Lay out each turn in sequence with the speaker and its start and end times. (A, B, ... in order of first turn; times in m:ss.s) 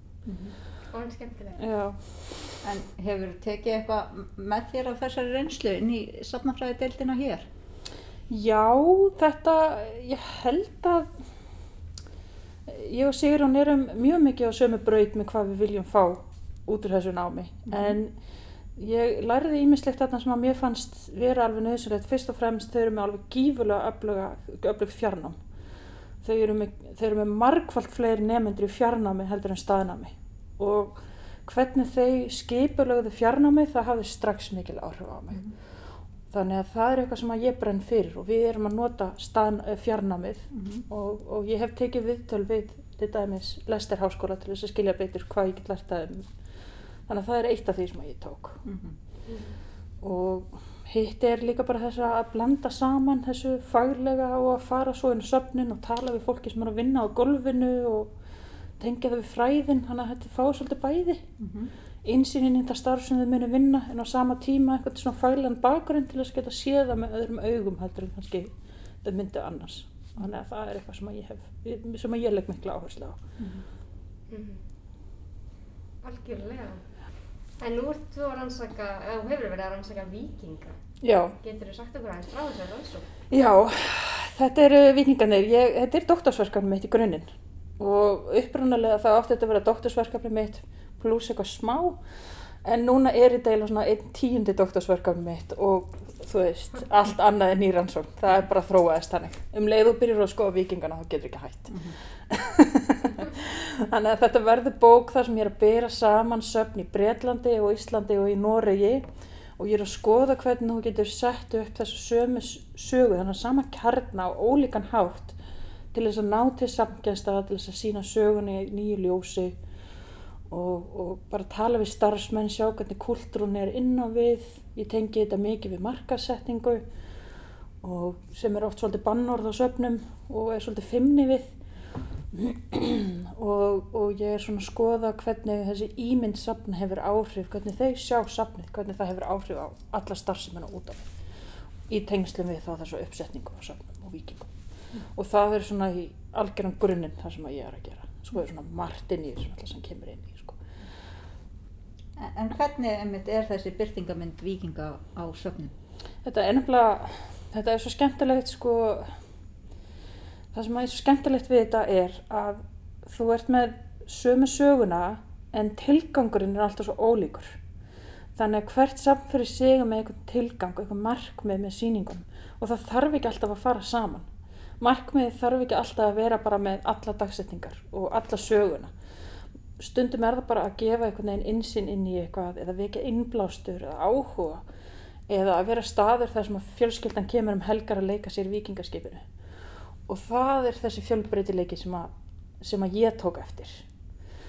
0:00.3-0:00.6 A
0:00.9-0:01.6 B
0:01.6-0:02.5 C
0:02.6-0:07.5 A
0:08.3-0:11.1 C
0:12.7-0:18.2 C
0:17.7-0:18.0 A
0:18.8-0:25.4 C
0:26.2-0:46.3 C
0:40.5-0:40.8 A
0:47.1-0:48.6 C
0:48.6-0:49.0 A
0:49.3-0:49.5 B
0:50.0-0:58.2 C
0:58.8-1:01.2 C
1:01.4-1:01.7 A
1:02.0-1:08.5 C
1:09.0-1:13.2 C
1:13.4-1:13.6 A
1:14.3-1:14.6 B
1:16.0-1:16.8 B
1:17.6-1:20.8 B
1:21.0-1:21.4 C
1:21.4-1:23.1 B
1:23.3-1:55.4 C
1:41.7-1:42.0 A
1:55.9-1:59.6 C
2:00.5-2:06.9 C
2:07.8-2:11.6 C
2:12.3-2:21.1 C
2:21.9-2:24.5 C
2:25.1-2:30.6 C
2:32.2-2:35.7 A
2:36.2-2:39.2 C
2:40.5-2:47.6 C
2:48.4-2:54.3 C
2:54.8-2:58.9 C
2:59.8-3:04.6 C
3:05.3-3:09.3 C
3:10.0-3:13.8 C